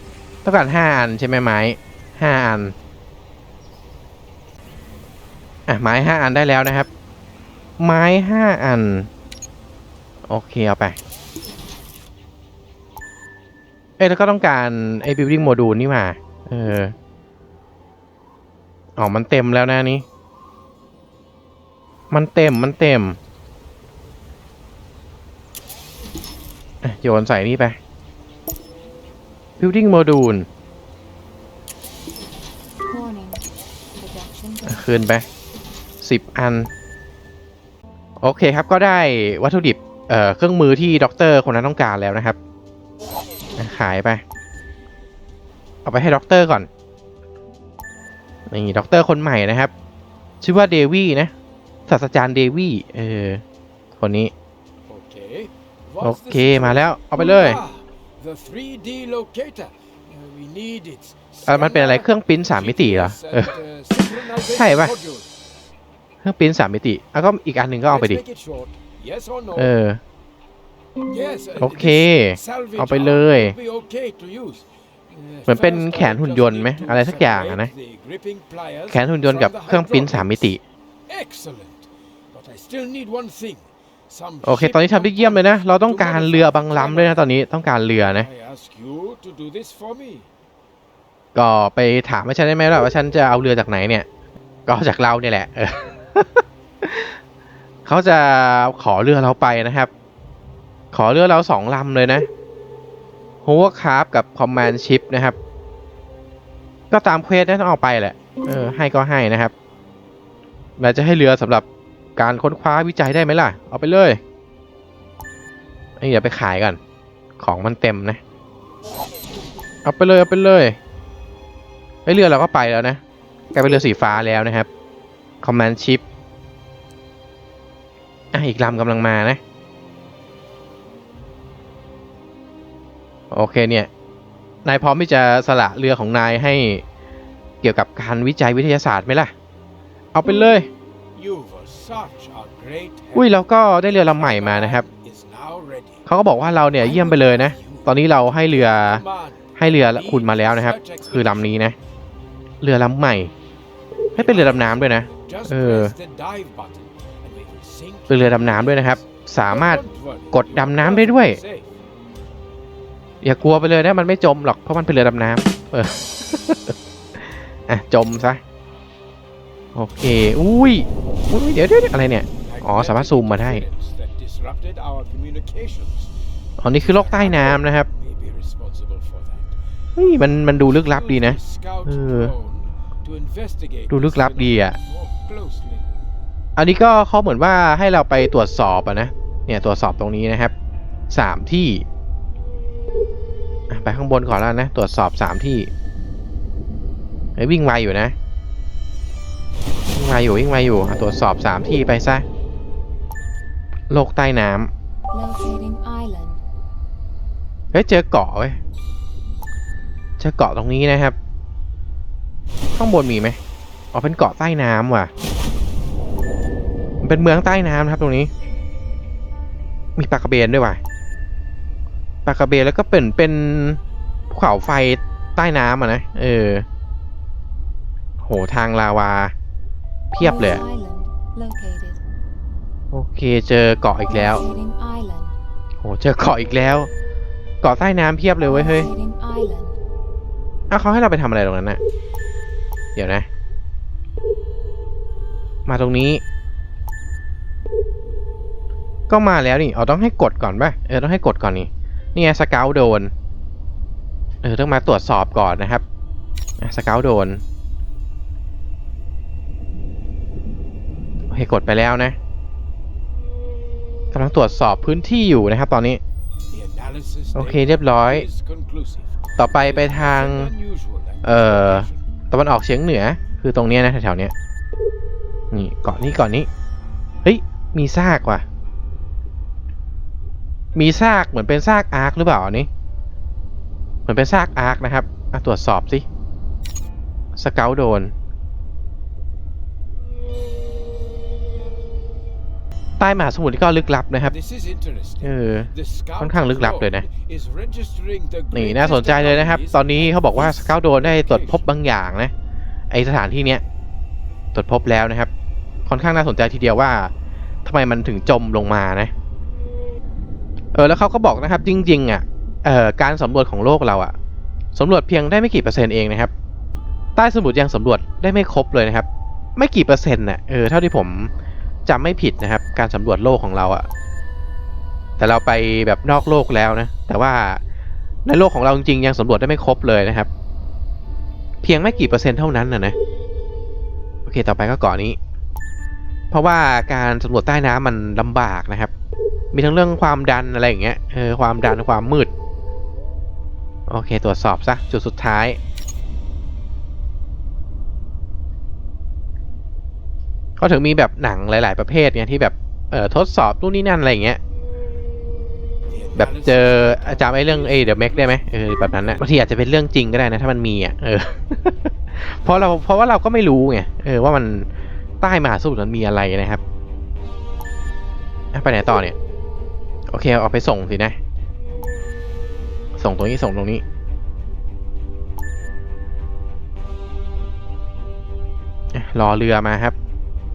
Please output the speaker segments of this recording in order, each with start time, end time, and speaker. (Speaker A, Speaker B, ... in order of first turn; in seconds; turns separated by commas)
Speaker A: 0.4-2.8, Speaker A: 5.7-6.9, Speaker A: 7.8-9.1, Speaker A: 10.3-11.0, Speaker A: 14.0-16.9, Speaker A: 19.0-20.1, Speaker A: 22.1-23.2, Speaker A: 26.8-27.8, Speaker A: 29.6-30.5, Speaker B: 32.9-33.4, Speaker B: 34.0-34.9, Speaker A: 34.7-35.3, Speaker A: 36.0-36.7, Speaker A: 38.2-42.4, Speaker A: 43.6-44.2, Speaker A: 45.9-46.7, Speaker A: 48.5-49.7, Speaker A: 50.4-51.3, Speaker A: 51.9-53.4, Speaker A: 54.0-54.3, Speaker C: 54.9-65.3, Speaker A: 56.0-57.6, Speaker A: 61.5-63.5, Speaker A: 64.4-64.9, Speaker A: 66.2-68.2, Speaker C: 67.8-69.7, Speaker A: 69.5-70.0, Speaker C: 71.1-80.6, Speaker A: 71.6-73.6, Speaker A: 75.5-77.7, Speaker A: 78.9-80.6, Speaker C: 81.1-87.3, Speaker A: 84.4-88.3, Speaker C: 88.0-90.3, Speaker A: 91.3-94.1, Speaker A: 94.7-97.2, Speaker A: 97.8-99.9, Speaker A: 100.9-102.3, Speaker A: 103.4-105.4, Speaker A: 106.9-109.5, Speaker A: 110.8-114.2, Speaker A: 116.0-116.8, Speaker A: 117.4-118.2, Speaker A: 119.8-120.8, Speaker A: 122.1-123.0, Speaker A: 123.5-124.7, Speaker A: 125.4-126.0, Speaker A: 128.3-129.4, Speaker A: 133.3-133.9, Speaker A: 134.7-136.8, Speaker A: 137.6-139.3, Speaker A: 140.1-140.7, Speaker C: 141.2-146.1, Speaker A: 143.1-144.9, Speaker A: 146.1-149.0, Speaker C: 146.8-151.6, Speaker A: 149.6-151.8, Speaker A: 152.6-153.3, Speaker C: 154.1-161.8, Speaker A: 154.2-155.9, Speaker A: 158.1-161.4, Speaker A: 163.2-166.8, Speaker A: 167.7-168.4, Speaker A: 169.8-173.7, Speaker C: 172.4-176.1, Speaker A: 176.6-177.9, Speaker C: 176.7-179.6, Speaker A: 180.0-182.3, Speaker C: 180.6-185.9, Speaker A: 183.9-184.8, Speaker A: 186.6-190.5, Speaker A: 191.1-191.8, Speaker A: 193.7-195.7, Speaker A: 197.4-198.2, Speaker A: 199.9-202.2, Speaker A: 203.9-204.7, Speaker B: 205.1-206.4, Speaker A: 207.7-208.6, Speaker A: 210.2-211.2, Speaker A: 212.8-213.4, Speaker A: 213.9-215.1, Speaker A: 217.0-218.3, Speaker A: 220.0-220.8, Speaker A: 222.2-223.8, Speaker A: 224.3-226.7, Speaker A: 228.2-229.3, Speaker A: 230.1-230.6, Speaker B: 230.2-232.0, Speaker A: 232.9-234.4, Speaker B: 234.1-235.3, Speaker A: 235.8-236.9, Speaker A: 237.6-238.9, Speaker B: 238.4-239.8, Speaker A: 240.7-241.8, Speaker A: 243.0-243.3, Speaker A: 245.7-246.2, Speaker A: 249.1-253.1, Speaker A: 254.4-255.8, Speaker A: 256.6-257.4, Speaker A: 261.3-262.2, Speaker A: 264.1-266.0, Speaker C: 266.5-272.1, Speaker A: 267.4-268.3, Speaker A: 269.4-270.5, Speaker A: 271.2-274.3, Speaker A: 275.5-276.5, Speaker A: 277.2-278.4, Speaker A: 280.8-282.7, Speaker A: 284.1-286.1, Speaker A: 287.4-288.1, Speaker A: 293.0-294.3, Speaker C: 294.2-301.6, Speaker A: 295.2-297.1, Speaker A: 298.5-302.3, Speaker A: 302.9-303.6, Speaker A: 304.5-305.3, Speaker A: 305.9-307.1, Speaker A: 307.6-309.1, Speaker A: 310.7-314.1, Speaker A: 314.8-316.3, Speaker A: 317.2-321.3, Speaker A: 321.9-323.9, Speaker A: 325.2-327.6, Speaker A: 328.2-330.3, Speaker A: 331.6-333.0, Speaker A: 334.3-335.2, Speaker A: 336.3-338.9, Speaker A: 339.5-342.3, Speaker A: 343.9-345.6, Speaker A: 350.6-354.4, Speaker C: 355.9-359.3, Speaker A: 356.2-364.7, Speaker A: 365.2-366.6, Speaker A: 368.5-369.2, Speaker A: 370.1-371.2, Speaker A: 373.0-373.8, Speaker A: 378.9-379.9